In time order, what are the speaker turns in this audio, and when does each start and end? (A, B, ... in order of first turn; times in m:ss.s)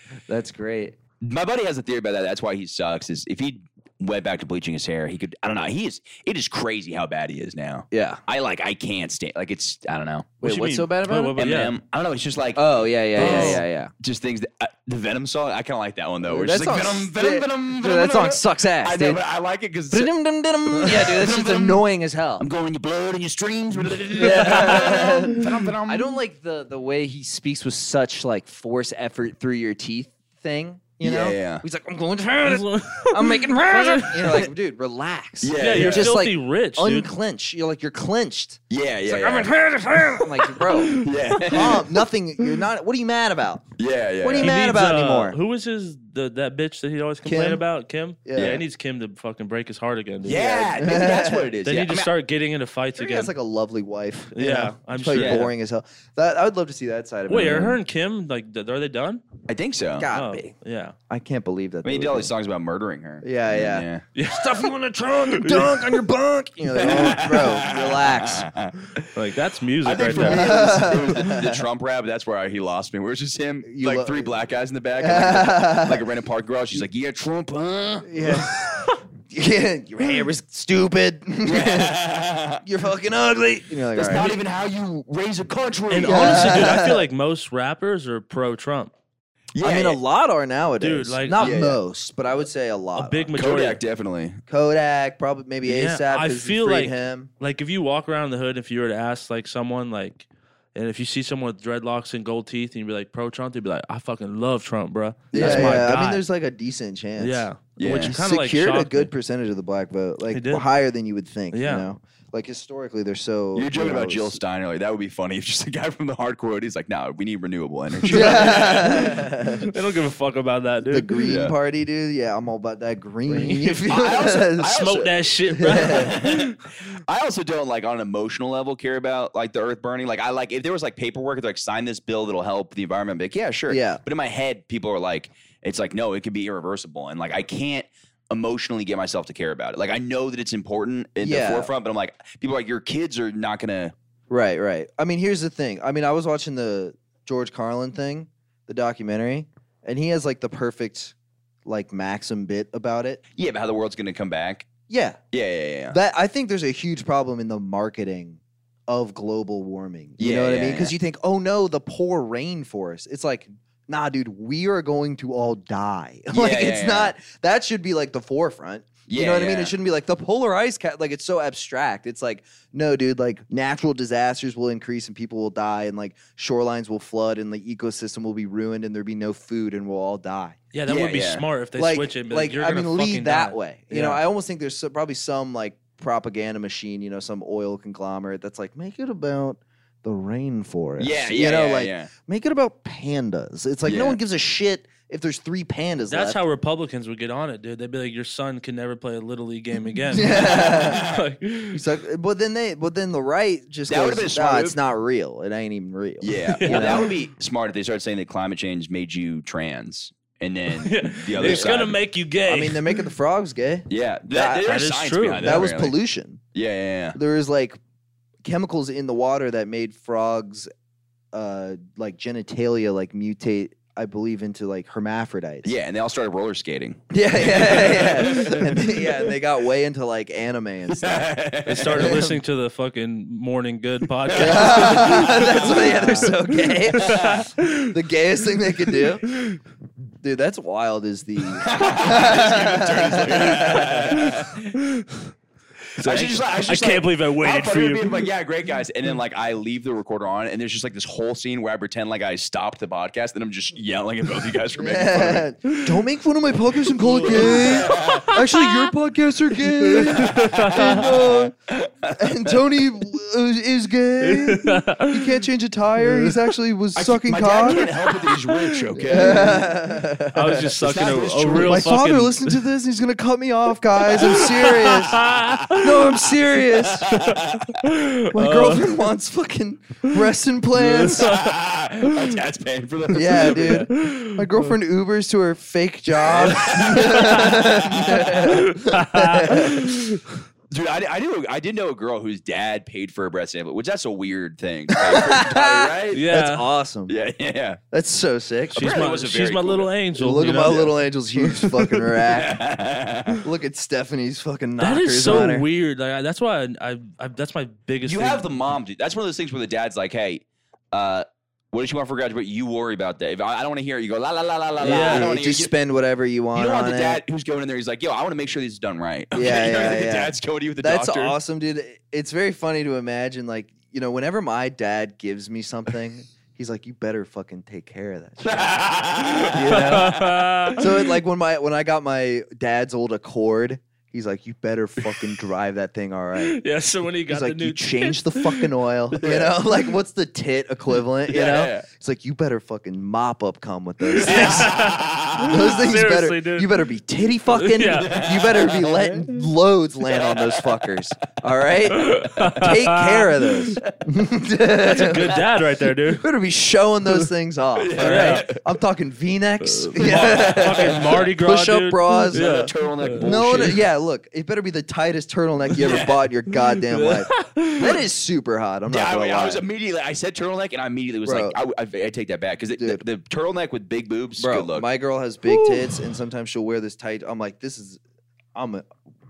0:00.3-0:01.0 A
0:01.2-0:10.3 B
0:07.9-0:08.2 A
0:10.4-0:11.7 C
0:10.4-0:11.4 A
0:11.4-0:20.1 B
0:12.5-0:13.9 A
0:13.2-0:13.6 C
0:16.2-0:19.2 A
0:19.9-0:22.4 A
0:20.7-0:21.8 B
0:22.4-0:26.1 B
0:24.1-0:43.6 A
0:24.2-0:25.4 C
0:31.0-0:31.6 B
0:32.4-0:34.5 C
0:35.4-0:36.1 B
0:35.6-0:37.1 C
0:38.7-0:39.5 B
0:40.9-0:41.9 B
0:43.8-0:44.5 B
0:44.2-0:45.4 A
0:44.4-0:51.0 C
0:47.2-0:47.6 A
0:48.2-0:48.6 A
0:48.4-0:48.6 B
0:50.2-0:52.1 B
0:50.7-0:51.5 A
0:51.6-0:53.3 C
0:53.0-0:57.8 A
0:54.3-0:55.5 C
0:55.1-0:55.4 B
0:57.3-0:59.2 C
0:59.5-1:00.1 B
1:00.0-1:00.5 A
1:00.1-1:01.0 C
1:01.1-1:02.3 A
1:01.8-1:04.0 B
1:03.2-1:08.5 A
1:04.1-1:04.7 C
1:05.4-1:06.0 C
1:06.7-1:09.0 B
1:09.1-1:11.1 C
1:09.8-1:18.1 B
1:10.1-1:11.6 A
1:13.6-1:14.3 A
1:15.0-1:16.0 A
1:18.0-1:22.0 A
1:18.6-1:18.9 C
1:21.4-1:22.6 B
1:22.6-1:24.4 A
1:23.9-1:26.8 B
1:25.9-1:28.9 C
1:26.0-1:27.1 A
1:29.5-1:30.0 B
1:29.6-1:33.3 A
1:30.8-1:31.6 C
1:31.4-1:31.8 B
1:33.0-1:33.8 C
1:33.3-1:34.4 B
1:34.5-1:37.3 A
1:35.6-1:46.2 C
1:45.3-1:45.9 B
1:45.3-1:54.4 A
1:47.2-1:49.1 C
1:47.8-1:48.1 B
1:50.3-1:50.6 C
1:51.5-1:51.8 C
1:53.5-1:59.2 B
1:58.0-2:01.3 C
1:58.1-1:59.7 A
2:00.8-2:04.8 A
2:01.2-2:01.5 B
2:03.3-2:03.9 C
2:03.9-2:23.9 B
2:04.6-2:06.5 C
2:05.5-2:06.2 A
2:13.7-2:14.0 A
2:21.2-2:21.7 A
2:24.3-2:33.2 A
2:33.4-2:34.7 B
2:34.9-2:35.2 A
2:35.3-2:36.0 B
2:35.9-3:00.6 A
2:40.2-2:40.9 B
2:46.3-2:47.1 B
2:49.1-2:49.7 B
3:00.7-3:04.2 C
3:00.8-3:01.4 B
3:01.8-3:16.4 A
3:11.0-3:12.1 B
3:13.8-3:14.2 B
3:16.1-3:21.8 C
3:20.0-3:21.0 A
3:20.2-3:21.2 B
3:21.7-3:27.1 A
3:23.9-3:24.8 B
3:26.2-3:32.0 B
3:26.4-3:27.1 C
3:30.8-3:33.0 C
3:31.4-3:31.9 A
3:32.4-3:34.6 A
3:33.9-3:36.0 B
3:34.6-3:35.6 C
3:35.4-3:36.4 A
3:36.5-3:37.2 B
3:37.1-3:37.8 A
3:38.4-3:40.7 A
3:41.3-3:45.7 A
3:45.6-3:49.1 B
3:47.1-3:51.3 A
3:50.9-3:52.2 B
3:51.6-3:57.9 C
3:51.9-3:52.4 A
3:54.3-3:56.3 B
3:54.3-3:59.2 A
3:57.0-3:57.4 B
3:59.3-3:59.6 C
4:00.2-4:04.2 A
4:01.6-4:04.6 B
4:04.2-4:05.3 C
4:06.0-4:08.3 C
4:06.0-4:15.4 B
4:14.8-4:21.5 A
4:17.0-4:18.3 B
4:17.1-4:18.9 C
4:19.9-4:21.1 C
4:20.2-4:22.5 B
4:22.1-4:27.9 A
4:24.2-4:25.4 C
4:26.0-4:26.3 C
4:27.0-4:29.7 B
4:27.6-4:29.6 C
4:29.0-4:30.7 A
4:30.3-4:32.6 C
4:30.8-4:31.9 B
4:31.5-4:37.1 A
4:34.1-4:36.1 C
4:35.1-4:35.8 B
4:36.9-4:37.8 B
4:37.1-4:39.0 C
4:38.3-4:41.3 A
4:40.8-4:41.5 C
4:41.2-4:43.8 B
4:42.0-4:42.3 C
4:43.1-4:49.8 A
4:43.1-4:44.5 C
4:46.2-4:48.6 B
4:46.6-4:47.6 C
4:48.2-4:50.4 C
4:50.7-4:56.2 B
4:55.0-4:57.1 A
4:56.1-4:56.7 C
4:57.1-4:57.8 B
4:57.9-4:58.9 A
4:58.7-4:59.9 B
4:58.7-5:01.0 C
5:00.2-5:02.6 A
5:01.6-5:01.8 C
5:02.3-5:03.4 B
5:03.4-5:05.7 A
5:04.8-5:08.5 C
5:08.0-5:15.7 B
5:14.8-5:17.2 A
5:14.8-5:15.3 C
5:16.5-5:21.3 B
5:19.3-5:28.8 A
5:28.4-5:30.8 B
5:29.3-5:31.1 C
5:29.5-5:36.6 A
5:36.4-5:38.7 C
5:37.3-5:44.9 A
5:39.1-5:39.5 B
5:41.3-5:41.8 B
5:44.1-5:46.8 C
5:44.2-5:45.8 B
5:45.4-5:55.4 A
5:47.5-5:48.2 C
5:47.9-5:49.2 B
5:50.1-5:50.7 B
5:51.9-5:53.8 C
5:52.4-5:52.6 B
5:54.8-5:56.2 C
5:56.1-6:02.7 A
5:57.8-5:58.6 B
5:58.0-5:58.5 C
5:59.6-6:03.8 C
6:00.0-6:01.3 B
6:02.3-6:03.8 B
6:03.2-6:09.6 A
6:05.8-6:06.2 B
6:06.5-6:08.0 C
6:08.9-6:14.9 B
6:11.2-6:11.6 A
6:12.8-6:13.0 A
6:14.4-6:18.0 A
6:15.5-6:15.9 C
6:18.5-6:18.8 A